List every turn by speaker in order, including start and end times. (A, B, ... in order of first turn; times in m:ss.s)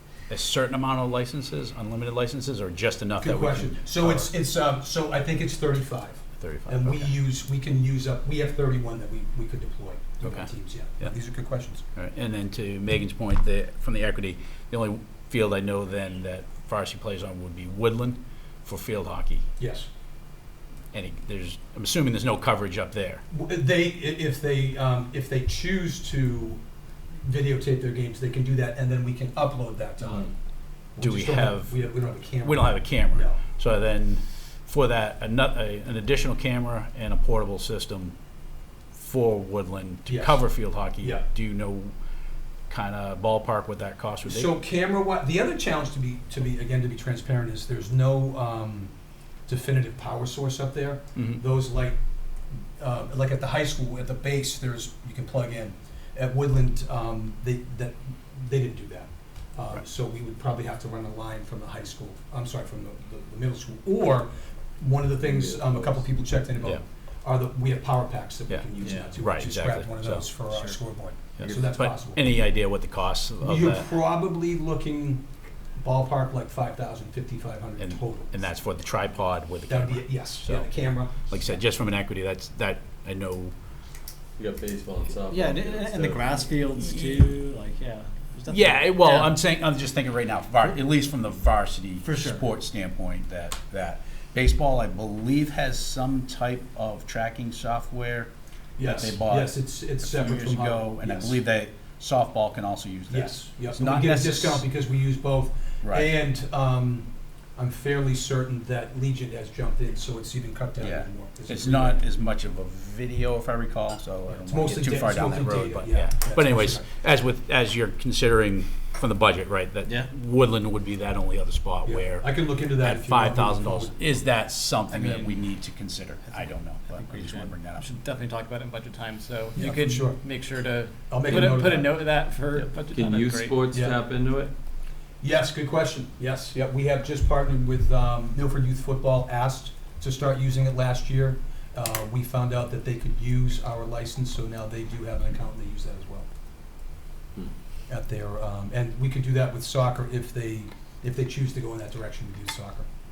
0:00.3-0:04.3 A
0:03.2-0:11.8 B
0:06.4-0:07.1 A
0:10.2-0:11.1 A
0:11.9-0:19.4 A
0:19.6-0:19.9 B
0:20.9-0:23.2 A
0:23.3-0:26.6 B
0:27.1-0:30.3 B
0:31.0-0:33.4 B
0:31.0-0:38.2 A
0:38.9-0:41.9 A
0:40.0-0:41.2 B
0:42.7-0:44.6 A
0:44.2-0:48.9 B
0:49.5-0:52.0 B
0:51.1-0:51.4 A
0:52.8-1:12.2 B
1:05.2-1:06.0 C
1:08.5-1:10.3 A
1:08.8-1:09.1 C
1:08.8-1:09.2 D
1:10.5-1:10.8 D
1:11.4-1:13.9 A
1:11.4-1:11.7 C
1:13.4-1:15.2 B
1:15.8-1:18.3 B
1:17.8-1:23.5 A
1:19.7-1:21.5 B
1:24.4-1:26.5 C
1:25.3-1:29.3 D
1:26.7-1:27.3 A
1:28.5-1:44.6 A
1:32.0-1:32.4 D
1:38.8-1:41.4 B
1:43.1-1:52.0 B
1:45.8-1:46.1 A
1:50.8-2:07.9 A
1:54.4-1:56.8 B
2:01.8-2:03.9 B
2:04.9-2:05.4 D
2:06.3-2:13.6 D
2:09.5-2:10.2 B
2:11.1-2:12.0 B
2:12.6-2:14.5 C
2:13.7-2:14.0 B
2:15.2-2:26.3 B
2:27.9-2:32.9 B